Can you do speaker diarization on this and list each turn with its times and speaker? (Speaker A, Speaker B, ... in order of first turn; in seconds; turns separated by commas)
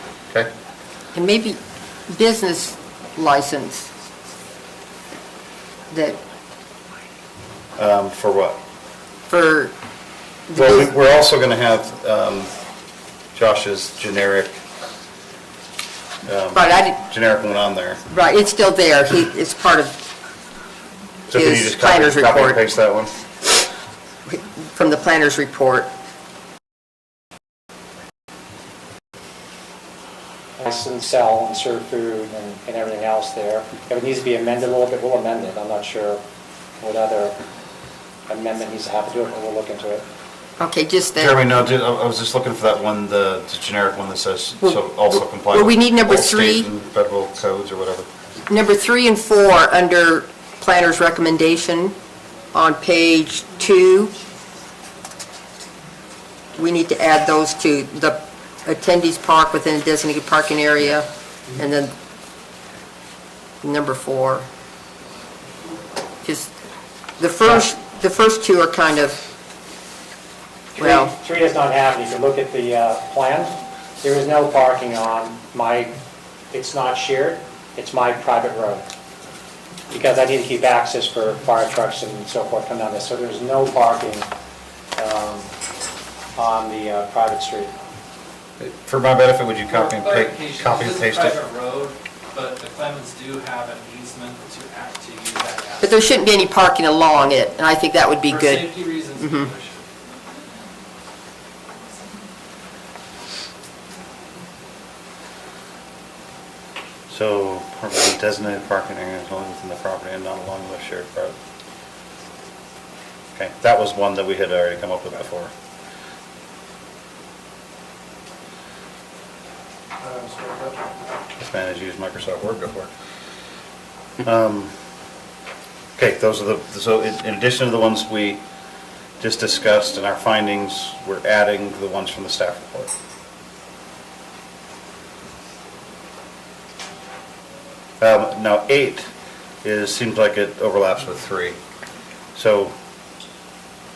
Speaker A: 1.1-1.6, Speaker A: 2.1-3.9, Speaker A: 5.9-6.2, Speaker B: 7.8-8.6, Speaker A: 9.3-9.7, Speaker A: 10.5-10.9, Speaker B: 10.6-12.5, Speaker B: 13.3-14.5, Speaker B: 16.2-18.0, Speaker A: 16.5-17.0, Speaker A: 18.1-19.9, Speaker B: 21.3-23.1, Speaker A: 21.3-22.6, Speaker A: 24.3-25.9, Speaker C: 30.6-36.2, Speaker C: 36.8-37.4, Speaker C: 38.3-40.0, Speaker A: 40.6-41.4, Speaker B: 41.2-48.1, Speaker A: 44.6-46.7, Speaker A: 48.5-52.0, Speaker A: 52.5-54.1, Speaker A: 56.6-62.0, Speaker A: 63.6-64.5, Speaker A: 66.2-66.5, Speaker A: 67.2-69.2, Speaker A: 70.8-71.1, Speaker C: 70.8-76.0, Speaker C: 76.5-78.9, Speaker C: 79.9-84.3, Speaker C: 85.0-85.5, Speaker C: 86.3-87.8, Speaker B: 88.6-91.4, Speaker D: 89.7-96.2, Speaker A: 95.8-99.5, Speaker D: 98.2-99.9, Speaker B: 107.1-111.3, Speaker B: 113.4-115.5, Speaker C: 120.1-120.8, Speaker B: 121.4-122.9, Speaker B: 124.2-124.7, Speaker B: 126.0-128.4, Speaker B: 129.2-132.9, Speaker B: 138.0-139.1, Speaker B: 139.6-141.6, Speaker B: 142.3-142.7